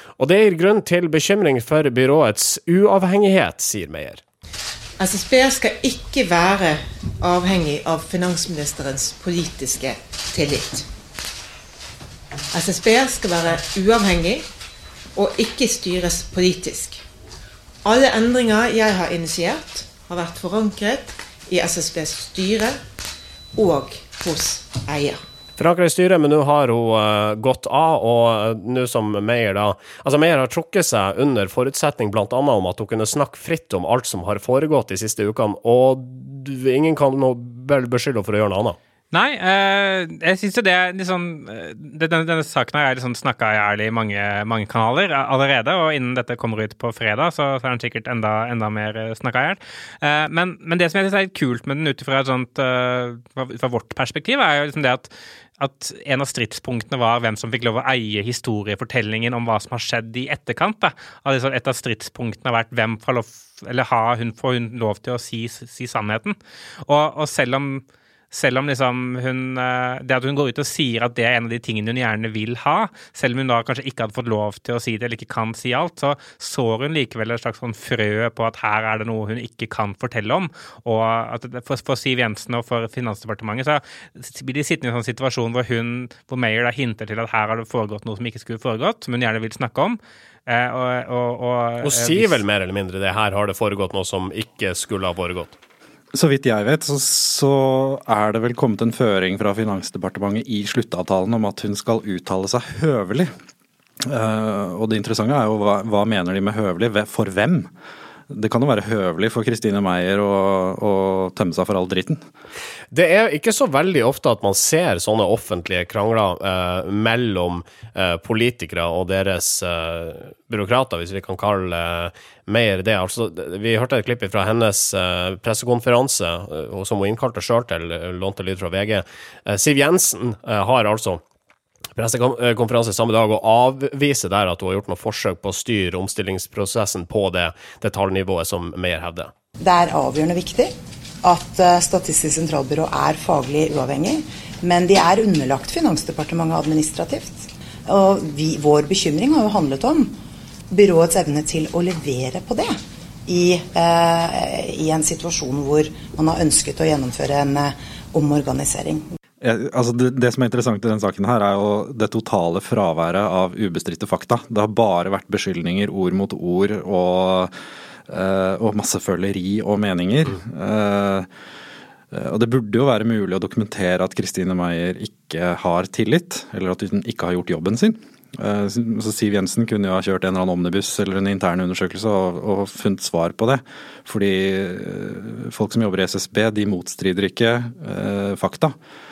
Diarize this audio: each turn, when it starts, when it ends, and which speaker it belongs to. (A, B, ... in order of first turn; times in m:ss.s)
0:00.2-0:04.2 A
0:05.0-0:10.9 B
0:12.5-0:14.4 B
0:15.1-0:17.0 B
0:17.8-0:22.8 B
0:23.5-0:25.2 B
0:25.6-0:38.8 A
0:39.1-1:32.4 C
1:31.8-1:35.5 A
1:36.1-1:43.3 D
1:44.0-1:47.7 D
1:48.3-1:52.2 D
1:52.9-2:11.2 A
2:12.0-2:19.3 A
2:19.6-2:30.1 E
2:30.7-2:39.0 E
2:39.4-2:47.5 D
2:48.1-2:51.3 D
2:52.1-3:08.8 D